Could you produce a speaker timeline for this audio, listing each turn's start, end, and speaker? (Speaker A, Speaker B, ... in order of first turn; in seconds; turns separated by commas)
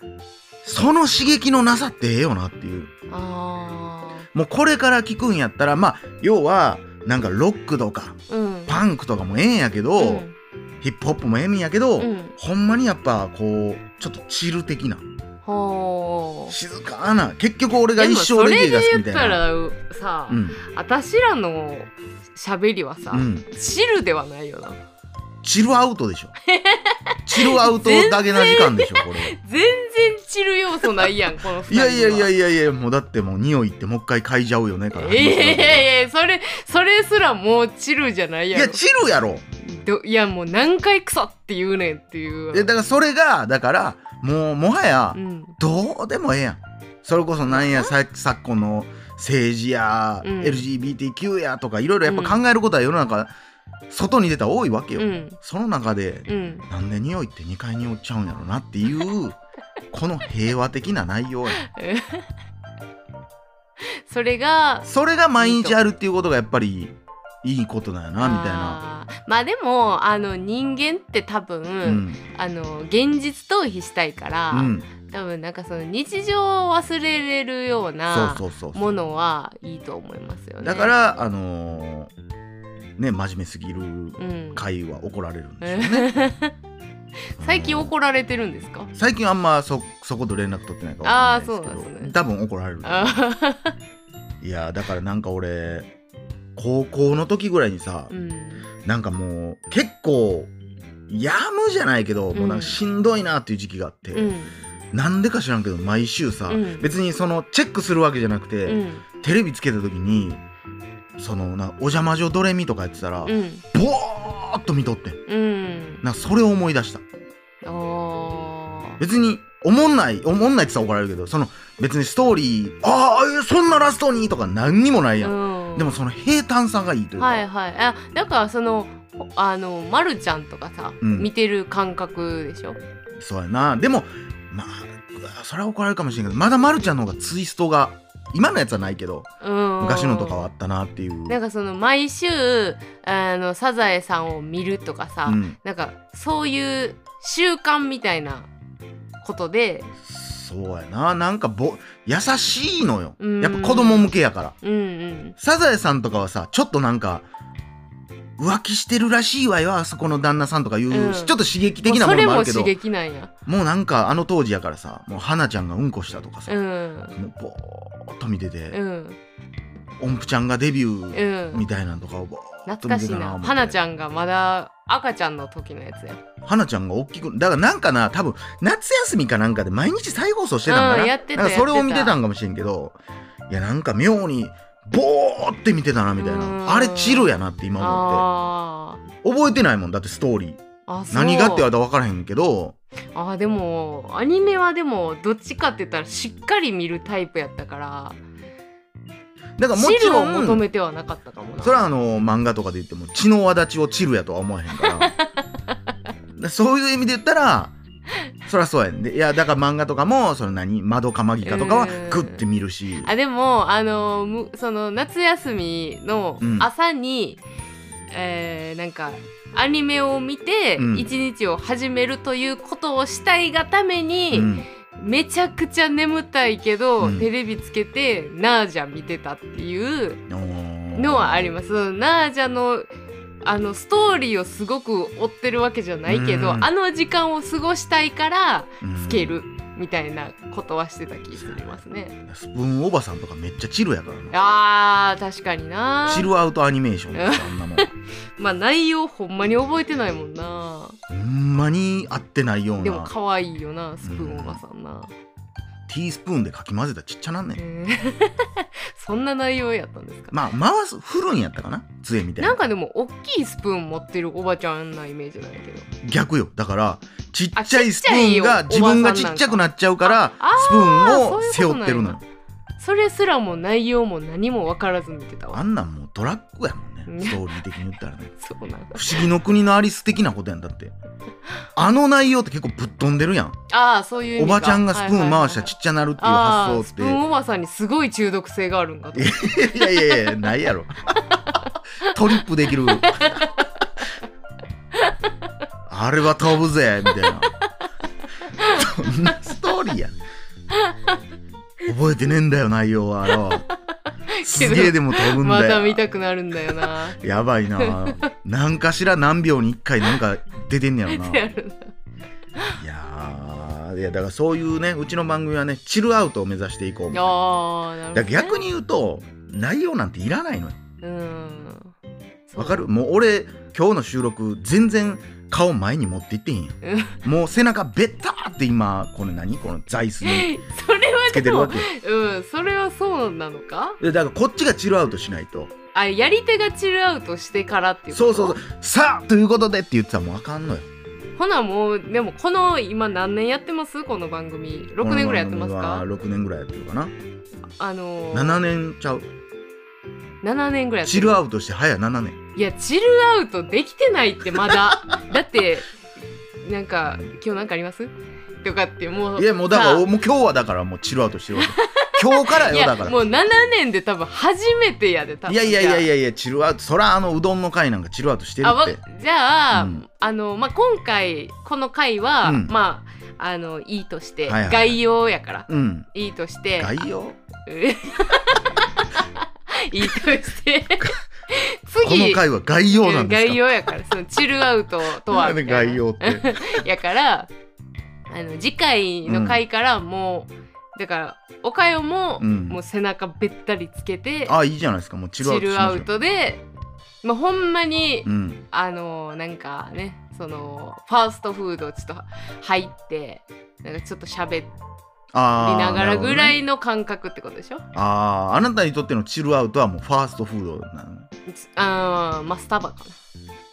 Speaker A: 0.6-2.9, Speaker B: 3.1-4.3, Speaker A: 4.3-10.2, Speaker B: 8.3-8.8, Speaker B: 10.0-10.3, Speaker A: 10.8-15.0, Speaker B: 12.0-12.3, Speaker B: 15.4-16.6, Speaker A: 16.5-19.4, Speaker B: 17.9-24.8, Speaker A: 20.3-20.6, Speaker A: 23.1-23.5, Speaker A: 25.4-26.3, Speaker B: 26.5-32.3, Speaker A: 27.2-29.4, Speaker A: 30.8-35.9, Speaker B: 34.9-38.8, Speaker A: 38.5-39.4, Speaker B: 39.6-42.7, Speaker A: 42.5-53.3, Speaker B: 45.1-45.5, Speaker B: 47.5-47.9, Speaker B: 50.2-50.6, Speaker B: 52.0-52.4, Speaker A: 53.9-59.4, Speaker B: 55.0-55.4, Speaker B: 56.3-56.6, Speaker A: 59.9-61.6, Speaker B: 61.6-62.2, Speaker B: 64.0-64.9, Speaker A: 64.8-68.8, Speaker B: 65.4-65.8, Speaker B: 68.2-80.9, Speaker A: 71.8-72.2, Speaker A: 74.5-74.9, Speaker A: 78.1-78.9, Speaker A: 80.6-82.1, Speaker A: 83.0-86.1, Speaker B: 84.2-84.6, Speaker B: 85.6-86.5, Speaker B: 87.4-88.9, Speaker A: 87.4-87.9, Speaker A: 88.9-93.2, Speaker B: 91.0-92.2, Speaker B: 92.8-93.7, Speaker A: 94.4-95.9, Speaker A: 96.5-98.1, Speaker B: 98.1-98.7, Speaker A: 98.8-100.5, Speaker A: 101.1-104.3, Speaker B: 102.3-102.8, Speaker B: 104.1-104.5, Speaker A: 104.9-110.4, Speaker B: 106.5-106.9, Speaker B: 108.6-109.0, Speaker A: 111.2-115.2, Speaker B: 113.2-113.6, Speaker B: 115.3-116.0, Speaker A: 116.0-117.0, Speaker B: 117.6-119.0, Speaker A: 119.0-127.4, Speaker B: 125.2-126.0, Speaker B: 127.2-132.8, Speaker A: 131.0-131.3, Speaker A: 133.2-139.3, Speaker B: 139.4-140.5, Speaker A: 139.8-141.4, Speaker B: 141.3-148.5, Speaker A: 145.2-145.6, Speaker B: 149.2-149.9, Speaker A: 150.0-154.6, Speaker B: 153.2-155.3, Speaker A: 155.4-157.3, Speaker A: 158.4-162.7, Speaker B: 160.9-163.3, Speaker A: 163.4-166.5, Speaker B: 166.5-167.2, Speaker A: 167.1-168.8, Speaker B: 168.7-169.2, Speaker A: 170.0-173.8, Speaker B: 171.1-171.6, Speaker B: 172.7-176.2, Speaker A: 176.4-188.3, Speaker B: 180.7-182.2, Speaker B: 186.2-189.0, Speaker A: 189.2-192.8, Speaker B: 190.8-191.7, Speaker B: 193.1-198.2, Speaker A: 199.6-200.6, Speaker B: 199.7-201.9, Speaker A: 201.6-205.1, Speaker B: 204.8-205.3, Speaker A: 206.3-207.8, Speaker A: 208.4-213.1, Speaker B: 211.4-212.4, Speaker B: 213.0-217.4, Speaker A: 216.4-216.7, Speaker B: 218.1-230.2, Speaker A: 220.8-221.1, Speaker A: 224.3-224.7, Speaker A: 227.0-227.3, Speaker A: 230.3-231.6, Speaker B: 230.9-232.9, Speaker B: 233.4-242.1, Speaker A: 236.1-236.7, Speaker A: 238.8-239.3, Speaker A: 241.4-244.3, Speaker B: 244.3-246.3, Speaker A: 246.1-247.9, Speaker B: 247.1-251.0, Speaker A: 251.1-253.1, Speaker B: 252.8-255.1, Speaker A: 254.0-254.6, Speaker A: 255.9-257.6, Speaker B: 257.6-260.4, Speaker A: 260.3-262.6, Speaker B: 262.4-265.9, Speaker A: 266.0-272.2, Speaker B: 267.6-272.2, Speaker B: 272.8-275.6, Speaker A: 275.5-278.4, Speaker B: 277.1-277.6, Speaker B: 278.4-279.2, Speaker A: 278.9-280.9, Speaker A: 281.8-283.6, Speaker B: 283.7-290.3, Speaker A: 284.4-287.2, Speaker A: 289.1-293.4, Speaker B: 292.9-293.5, Speaker A: 295.9-297.5, Speaker B: 298.5-299.1, Speaker A: 298.6-300.1, Speaker B: 300.7-301.2, Speaker A: 301.8-303.6, Speaker B: 303.3-303.6, Speaker B: 304.3-307.2, Speaker A: 304.4-306.0, Speaker A: 306.7-311.5, Speaker B: 307.8-308.2, Speaker B: 311.1-311.9, Speaker A: 312.8-317.3, Speaker B: 317.1-318.6, Speaker A: 318.1-320.8, Speaker B: 321.0-321.9, Speaker B: 322.5-322.8, Speaker A: 322.6-330.5, Speaker B: 326.8-327.2, Speaker B: 330.2-334.0, Speaker A: 331.3-331.9, Speaker A: 334.0-335.7, Speaker B: 335.9-338.6, Speaker A: 338.1-340.9, Speaker B: 341.4-346.1, Speaker A: 345.0-347.1, Speaker B: 347.8-348.6, Speaker A: 348.3-349.2, Speaker B: 350.4-351.4, Speaker A: 351.0-352.4, Speaker B: 352.5-355.9, Speaker B: 356.6-360.0, Speaker A: 359.4-363.2, Speaker B: 361.6-366.1, Speaker A: 365.5-369.0, Speaker B: 368.6-376.9, Speaker A: 369.7-370.0, Speaker A: 372.4-372.7, Speaker A: 374.5-375.0, Speaker A: 375.7-376.1, Speaker A: 376.8-377.4, Speaker B: 377.6-387.5, Speaker A: 382.0-383.7, Speaker A: 385.2-386.8, Speaker B: 388.3-394.5, Speaker A: 389.2-389.6, Speaker A: 392.4-392.8, Speaker A: 394.5-396.1, Speaker B: 395.4-396.6, Speaker B: 397.2-404.7, Speaker A: 398.2-398.6, Speaker A: 405.3-406.6, Speaker B: 405.5-407.8, Speaker A: 407.9-411.3, Speaker B: 411.5-413.2